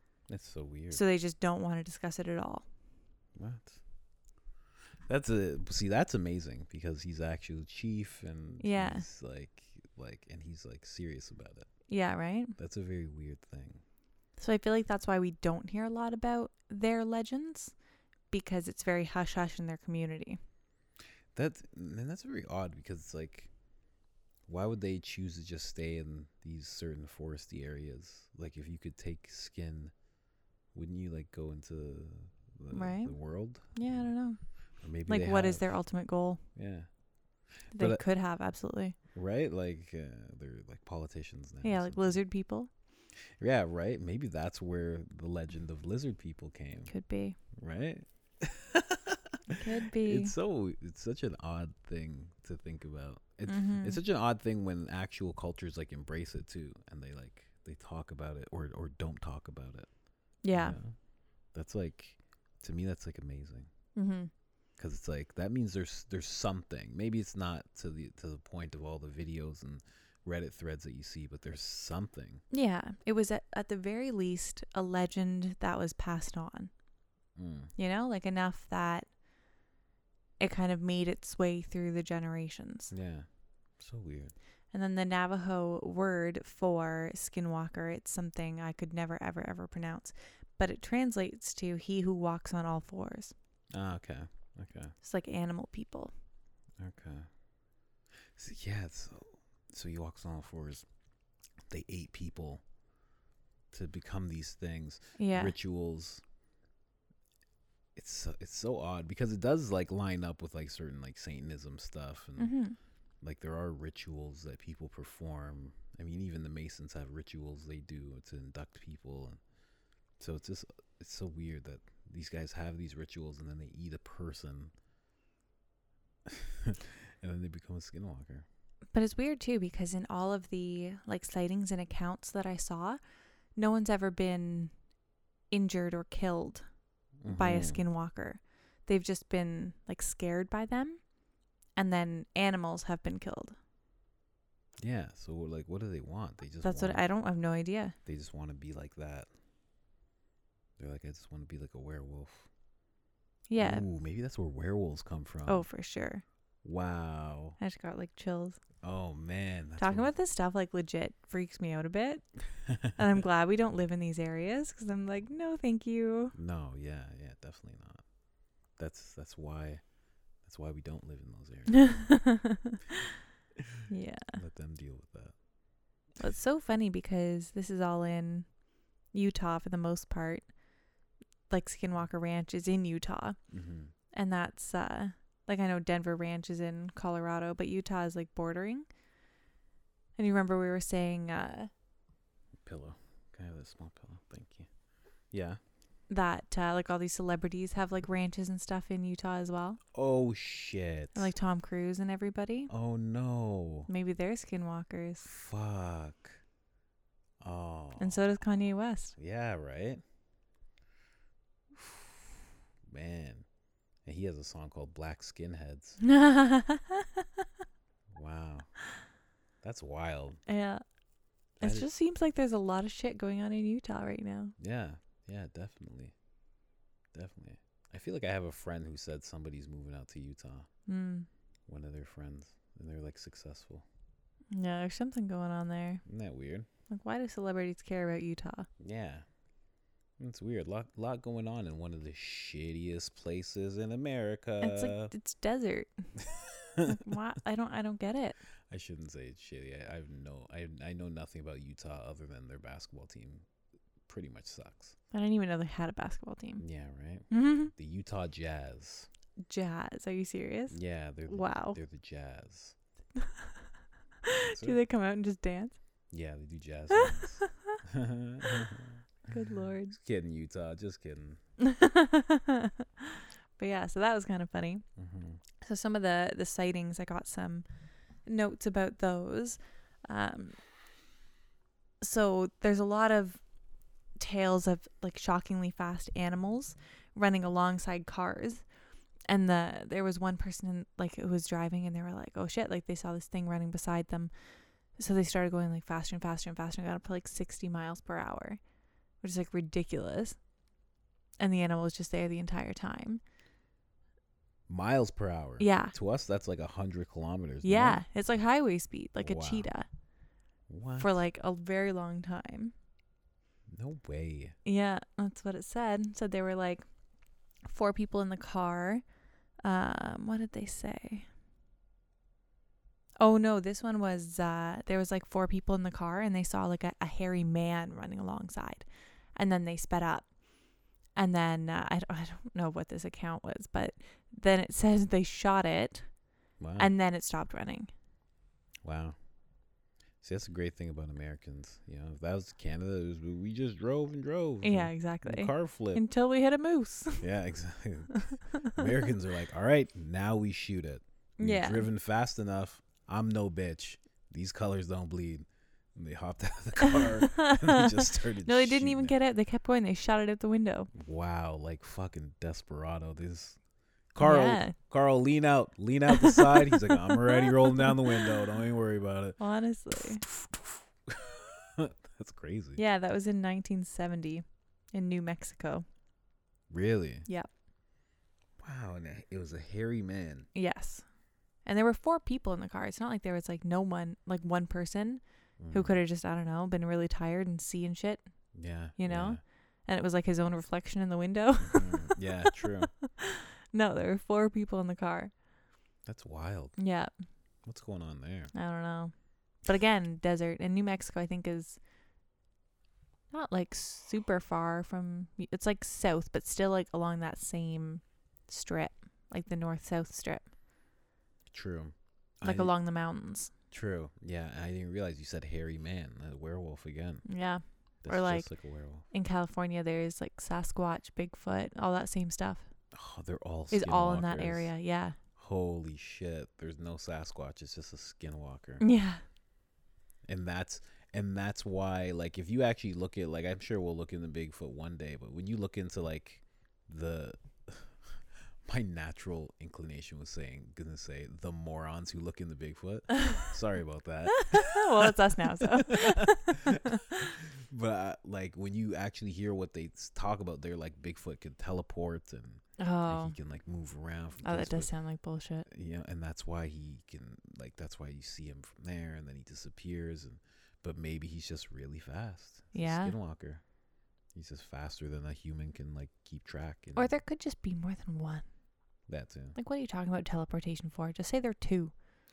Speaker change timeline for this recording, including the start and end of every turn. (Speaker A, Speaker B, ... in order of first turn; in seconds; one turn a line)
Speaker A: 0.3-1.0
Speaker B: 0.9-2.7
Speaker A: 3.4-3.8
Speaker A: 5.1-11.7
Speaker B: 8.6-9.1
Speaker B: 11.9-12.6
Speaker A: 12.6-13.8
Speaker B: 14.4-17.7
Speaker B: 18.3-20.4
Speaker A: 21.4-23.5
Speaker A: 24.5-29.9
Speaker A: 30.7-34.1
Speaker B: 32.7-33.2
Speaker B: 33.7-34.4
Speaker A: 34.8-35.6
Speaker B: 35.1-36.4
Speaker A: 36.5-36.9
Speaker A: 37.7-38.0
Speaker B: 37.7-39.0
Speaker A: 39.1-42.2
Speaker B: 41.6-42.7
Speaker A: 43.4-46.9
Speaker B: 46.9-47.4
Speaker A: 47.6-59.9
Speaker B: 49.5-50.4
Speaker B: 53.5-54.0
Speaker B: 60.4-60.8
Speaker A: 60.5-61.0
Speaker A: 61.5-63.7
Speaker B: 64.0-64.3
Speaker A: 64.8-72.4
Speaker B: 72.5-76.7
Speaker A: 77.4-77.7
Speaker B: 77.8-79.1
Speaker B: 80.4-82.9
Speaker A: 82.9-83.3
Speaker A: 83.8-84.3
Speaker B: 84.7-93.3
Speaker A: 93.7-94.9
Speaker B: 95.0-96.1
Speaker A: 96.8-97.3
Speaker A: 98.3-100.9
Speaker A: 101.7-102.6
Speaker A: 103.7-106.2
Speaker B: 105.2-105.5
Speaker A: 108.0-112.5
Speaker B: 112.4-112.8
Speaker A: 113.2-119.4
Speaker A: 120.2-124.7
Speaker A: 126.3-128.5
Speaker B: 128.9-133.0
Speaker B: 133.6-134.7
Speaker B: 135.5-136.7
Speaker A: 137.2-137.8
Speaker B: 137.3-141.0
Speaker B: 141.8-143.6
Speaker A: 144.8-147.0
Speaker B: 146.6-148.0
Speaker A: 148.1-149.3
Speaker A: 150.8-152.5
Speaker B: 153.5-153.8
Speaker A: 153.6-155.7
Speaker B: 155.5-156.2
Speaker A: 156.6-157.6
Speaker B: 157.6-158.6
Speaker A: 158.8-160.1
Speaker B: 159.8-162.2
Speaker A: 162.7-163.0
Speaker B: 163.0-166.3
Speaker A: 166.3-168.0
Speaker A: 168.8-169.8
Speaker A: 170.4-172.0
Speaker B: 171.7-173.0
Speaker B: 173.9-174.4
Speaker A: 174.3-175.3
Speaker B: 176.2-178.5
Speaker B: 179.1-180.5
Speaker B: 181.5-183.4
Speaker A: 183.5-183.9
Speaker B: 184.1-188.9
Speaker B: 190.2-191.7
Speaker A: 192.7-194.7
Speaker A: 195.3-195.6
Speaker B: 196.1-199.8
Speaker A: 199.9-201.3
Speaker B: 201.2-202.7
Speaker A: 202.7-203.9
Speaker B: 203.9-205.3
Speaker A: 205.2-206.4
Speaker A: 207.4-208.4
Speaker B: 208.0-209.2
Speaker A: 209.2-210.0
Speaker A: 211.8-212.3
Speaker A: 212.9-213.5
Speaker A: 214.1-216.0
Speaker B: 216.0-217.5
Speaker A: 218.1-218.7
Speaker A: 219.6-220.4
Speaker B: 220.5-220.8
Speaker A: 221.6-221.9
Speaker B: 221.6-224.6
Speaker A: 224.6-226.1
Speaker A: 227.1-230.7
Speaker B: 230.9-231.3
Speaker A: 231.7-233.8
Speaker B: 234.5-236.0
Speaker A: 236.1-236.7
Speaker B: 236.9-238.7
Speaker A: 238.8-239.2
Speaker A: 240.2-245.1
Speaker B: 244.6-246.1
Speaker A: 246.2-247.0
Speaker B: 246.8-248.4
Speaker A: 248.7-253.5
Speaker A: 254.1-255.0
Speaker B: 255.1-256.6
Speaker A: 256.6-259.1
Speaker B: 257.3-257.7
Speaker B: 259.4-260.8
Speaker A: 260.7-262.8
Speaker B: 261.3-261.8
Speaker B: 263.2-263.7
Speaker B: 264.2-265.8
Speaker A: 264.4-264.8
Speaker A: 266.1-269.0
Speaker B: 266.9-267.8
Speaker B: 269.3-270.0
Speaker A: 269.9-271.4
Speaker B: 271.6-274.8
Speaker A: 275.0-275.4
Speaker B: 275.6-277.6
Speaker B: 278.2-280.6
Speaker B: 282.0-283.4
Speaker B: 284.2-288.6
Speaker B: 289.3-294.3
Speaker B: 295.0-298.6
Speaker B: 299.2-300.4
Speaker B: 301.4-303.2
Speaker A: 304.7-308.0
Speaker B: 305.6-305.9
Speaker B: 307.6-309.9
Speaker A: 309.2-309.7
Speaker A: 310.7-311.1
Speaker B: 311.0-312.7
Speaker A: 313.7-314.6
Speaker B: 314.6-316.9
Speaker B: 317.6-319.0
Speaker B: 319.6-321.3
Speaker B: 323.2-330.3
Speaker B: 331.2-336.1
Speaker A: 336.6-336.9
Speaker B: 336.8-337.9
Speaker A: 338.8-339.2
Speaker A: 340.2-346.0
Speaker B: 344.6-347.2
Speaker A: 347.2-359.2
Speaker B: 351.4-351.9
Speaker B: 356.8-360.9
Speaker A: 360.9-363.6
Speaker A: 364.1-369.4
Speaker B: 364.2-364.8
Speaker B: 366.1-368.4
Speaker B: 369.4-370.2
Speaker A: 370.0-372.8
Speaker B: 372.8-375.9
Speaker A: 376.7-377.3
Speaker A: 378.6-380.5
Speaker B: 380.5-381.1
Speaker B: 381.6-385.2
Speaker A: 385.6-386.0
Speaker B: 385.7-388.2
Speaker A: 388.6-389.4
Speaker B: 389.0-395.3
Speaker A: 391.6-392.9
Speaker A: 396.1-396.8
Speaker B: 396.8-397.1
Speaker A: 397.7-398.5
Speaker B: 398.5-399.1
Speaker B: 399.6-401.8
Speaker B: 403.3-410.5
Speaker A: 411.5-412.7
Speaker B: 412.4-413.5
Speaker A: 413.7-417.2
Speaker B: 417.3-418.5
Speaker A: 418.0-419.1
Speaker B: 419.1-422.6
Speaker A: 422.9-424.7
Speaker B: 423.7-425.2
Speaker A: 425.4-428.8
Speaker B: 428.8-429.2
Speaker A: 430.3-438.0
Speaker A: 438.6-454.9
Speaker B: 444.4-447.2
Speaker B: 452.8-453.4
Speaker B: 454.4-455.7
Speaker A: 455.7-463.6
Speaker B: 462.7-463.1
Speaker A: 464.4-467.1
Speaker B: 467.0-468.4
Speaker A: 469.1-469.6
Speaker B: 469.6-471.9